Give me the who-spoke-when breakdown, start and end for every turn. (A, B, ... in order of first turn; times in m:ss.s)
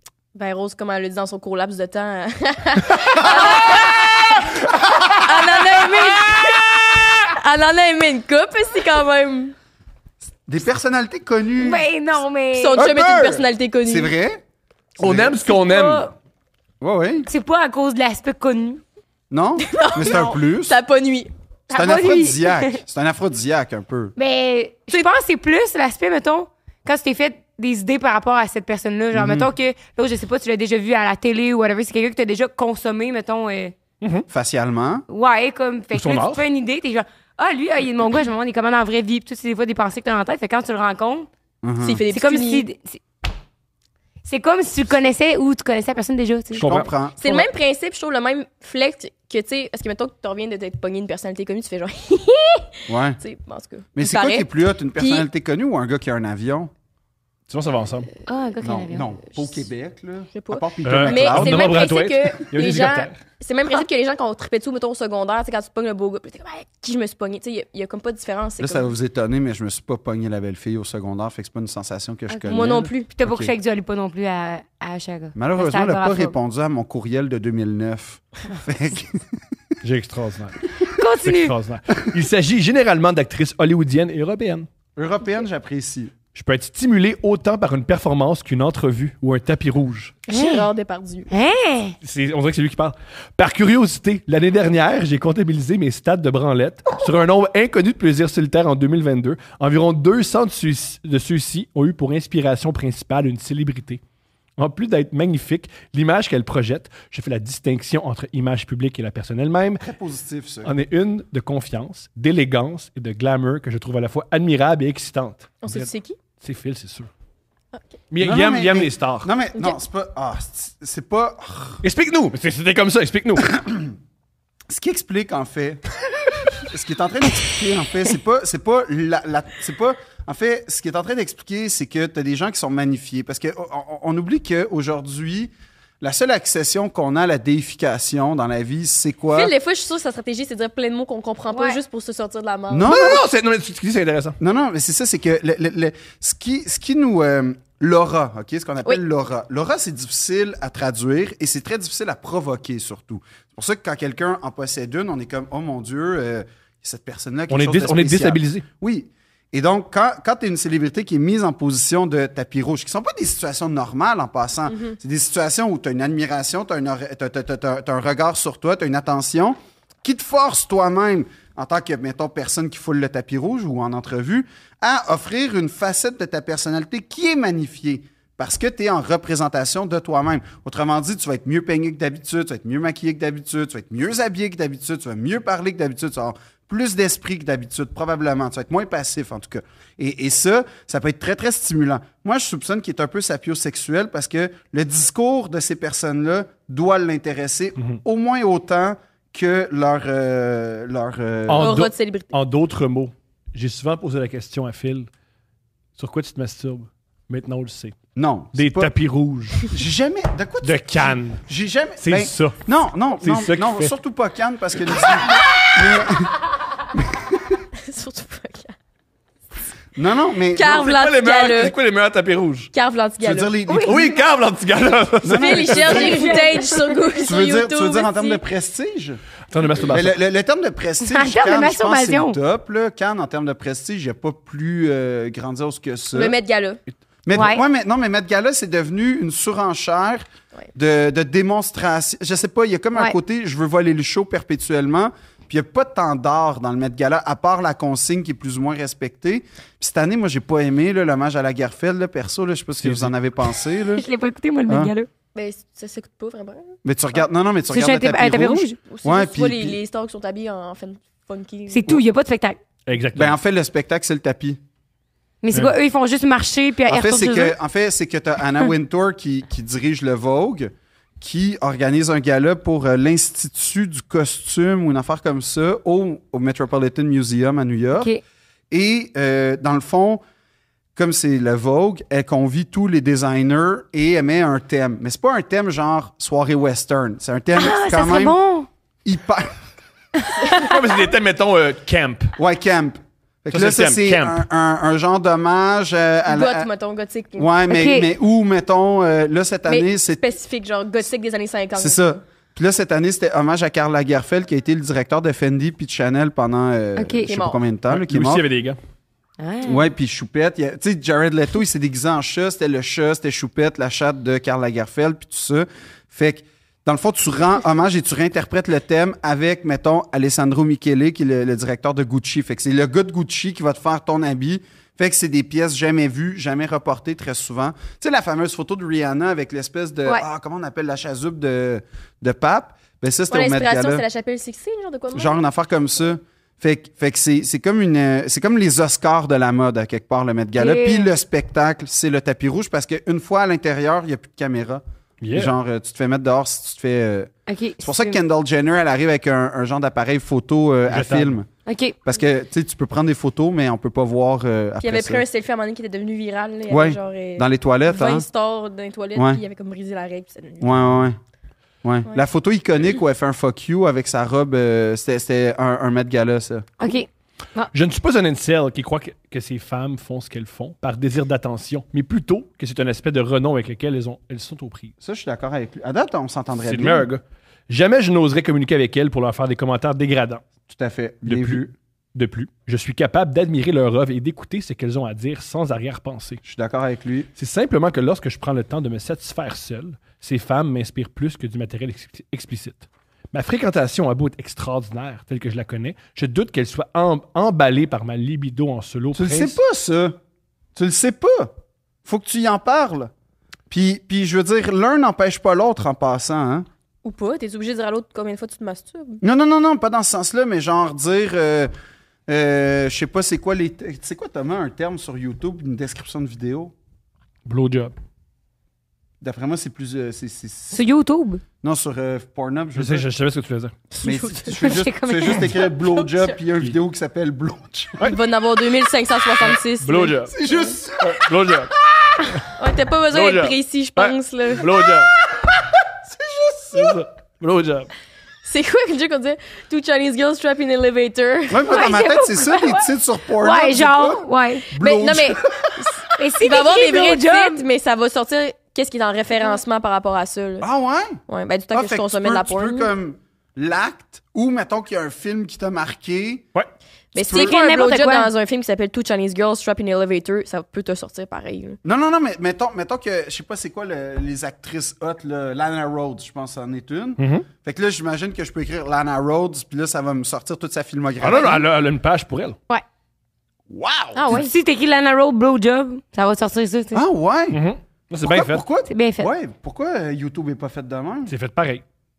0:00.3-0:09.6 A
0:05.6-0:06.8 B
0:10.5-0:11.8 C
0:11.6-0:12.8 D
0:12.5-0:14.1 A
0:12.8-0:13.5 B
0:13.8-0:14.4 C
0:15.0-0:16.1 B
0:15.0-0:15.4 C
0:15.5-0:16.1 D
0:16.8-0:17.3 C
0:17.3-0:18.8 D
0:19.3-0:20.8 C
0:19.7-0:21.3 A
0:21.7-0:22.8 D
0:21.7-0:24.1 C
0:24.2-0:33.8 D
0:29.1-0:29.5 C
0:34.0-0:34.3 B
0:34.3-0:35.0 C
0:35.1-0:41.3 D
0:35.9-0:36.4 B
0:41.6-0:42.0 C
0:41.8-0:42.6 A
0:42.1-0:43.0 D
0:44.2-0:46.7 D
0:46.5-0:46.9 B
0:46.6-0:47.2 C
0:47.2-0:55.3 A
0:52.9-0:53.2 C
0:54.0-0:56.7 C
0:57.5-0:58.1 B
0:58.3-0:59.1 D
0:58.6-1:01.8 C
1:00.4-1:08.9 A
1:00.8-1:03.2 B
1:08.6-1:13.5 C
1:12.3-1:16.4 D
1:12.5-1:13.1 A
1:15.4-1:19.4 C
1:19.8-1:20.7 B
1:20.9-1:21.5 D
1:21.2-1:24.7 B
1:25.0-1:26.1 C
1:26.4-1:30.2 B
1:30.3-1:31.3 A
1:30.3-1:30.6 D
1:31.3-1:32.0 D
1:32.0-1:44.0 B
1:44.6-1:49.9 B
1:49.8-1:50.7 C
1:50.6-1:57.1 B
1:55.6-1:56.2 A
1:58.1-1:59.3 B
1:58.2-2:01.8 C
2:01.8-2:03.5 B
2:03.5-2:04.0 C
2:04.7-2:05.8 C
2:06.6-2:19.5 C
2:19.3-2:22.9 A
2:21.5-2:21.8 D
2:22.7-2:23.2 C
2:22.8-2:24.4 B
2:24.4-3:21.7 C
2:37.5-2:38.6 B
3:21.5-3:25.1 B
3:21.6-3:22.3 A
3:26.0-3:28.0 B
3:28.2-3:28.9 C
3:28.5-3:29.7 B
3:29.7-3:36.4 C
3:30.6-3:31.5 B
3:32.0-3:32.6 B
3:33.2-3:33.9 B
3:34.9-3:36.1 B
3:37.0-3:37.6 C
3:37.7-3:38.8 A
3:40.0-3:40.9 C
3:40.5-3:41.7 A
3:40.7-3:42.7 B
3:42.7-3:43.6 A
3:43.2-3:44.2 C
3:43.7-3:43.9 D
3:43.8-3:46.0 B
3:45.2-3:46.4 C
3:45.3-3:48.4 A
3:45.8-3:47.2 D
3:47.2-3:49.2 C
3:49.5-3:50.2 B
3:49.9-3:56.4 C
3:51.0-3:52.4 D
3:56.1-3:56.8 A
3:57.3-4:14.0 C
3:57.3-3:57.6 D
4:12.8-4:13.1 B
4:13.9-4:15.1 D
4:15.4-4:16.8 A
4:16.8-4:19.8 C
4:17.7-4:18.8 D
4:18.8-4:21.8 A
4:21.7-4:22.6 D
4:22.9-4:23.4 B
4:23.2-4:24.6 C
4:25.4-4:27.6 D
4:26.9-4:38.1 C
4:38.7-4:40.2 C
4:41.0-4:48.4 C
4:47.6-4:48.7 D
4:49.0-4:49.6 C
4:50.2-4:50.8 D
4:50.5-4:52.4 B
4:52.4-4:56.7 C
4:53.5-4:54.4 B
4:56.3-4:57.5 A
4:57.4-5:00.2 C
4:57.7-4:58.1 D
4:59.7-5:02.0 A
5:01.8-5:08.4 C
5:07.0-5:07.3 D
5:07.3-5:07.6 A
5:07.9-5:08.8 B
5:09.4-5:09.9 D
5:09.6-5:34.0 C
5:33.3-5:35.4 A
5:35.1-5:44.8 C
5:40.6-5:41.1 D
5:45.2-5:45.5 B
5:45.3-5:51.5 C
5:47.5-5:48.2 D
5:50.9-5:51.3 B
5:51.7-5:52.0 D
5:52.0-5:55.2 C
5:54.8-6:00.8 A
5:56.7-5:58.3 C
5:59.2-5:59.4 C
6:00.6-6:01.2 C
6:01.8-6:06.6 C
6:06.8-6:07.7 D
6:07.7-6:14.9 B
6:15.0-6:17.1 C
6:16.6-6:20.4 B
6:20.7-6:21.7 C
6:21.3-6:21.6 B
6:22.2-6:26.4 B
6:26.4-6:27.3 C
6:27.4-6:39.6 B
6:39.2-6:40.2 C
6:40.8-6:41.5 C
6:42.0-6:43.1 C
6:43.7-6:46.7 C
6:47.0-6:49.2 A
6:49.2-6:51.7 C
6:52.3-6:56.7 C
6:57.4-6:58.0 B
6:59.2-7:00.8 C
7:00.7-7:01.4 D
7:01.6-7:03.1 C
7:02.8-7:03.7 B
7:03.9-7:04.8 A
7:04.0-7:08.1 C
7:04.5-7:05.5 D
7:05.4-7:06.4 A
7:08.0-7:10.7 A
7:09.4-7:10.4 B
7:10.3-7:12.3 C
7:11.0-7:11.7 B
7:12.5-7:14.7 A
7:13.1-7:15.2 B
7:16.0-7:17.0 C
7:16.7-7:17.9 B
7:18.4-7:21.7 A
7:21.5-7:26.1 C
7:21.6-7:24.7 D
7:24.8-7:30.7 A
7:26.2-7:27.6 D
7:30.6-7:31.2 C
7:31.3-7:32.9 A
7:31.7-7:36.5 C
7:37.1-7:41.8 A
7:37.2-7:37.6 C
7:37.2-7:38.3 D
7:41.8-7:51.7 C
7:47.2-7:47.5 B
7:51.2-7:52.6 B
7:53.7-7:54.2 B
7:54.2-7:54.5 A
7:54.3-7:57.0 D
7:56.9-7:57.6 C
7:57.5-7:58.6 B
7:58.2-8:01.3 C
7:58.9-7:59.3 D
8:01.3-8:01.8 B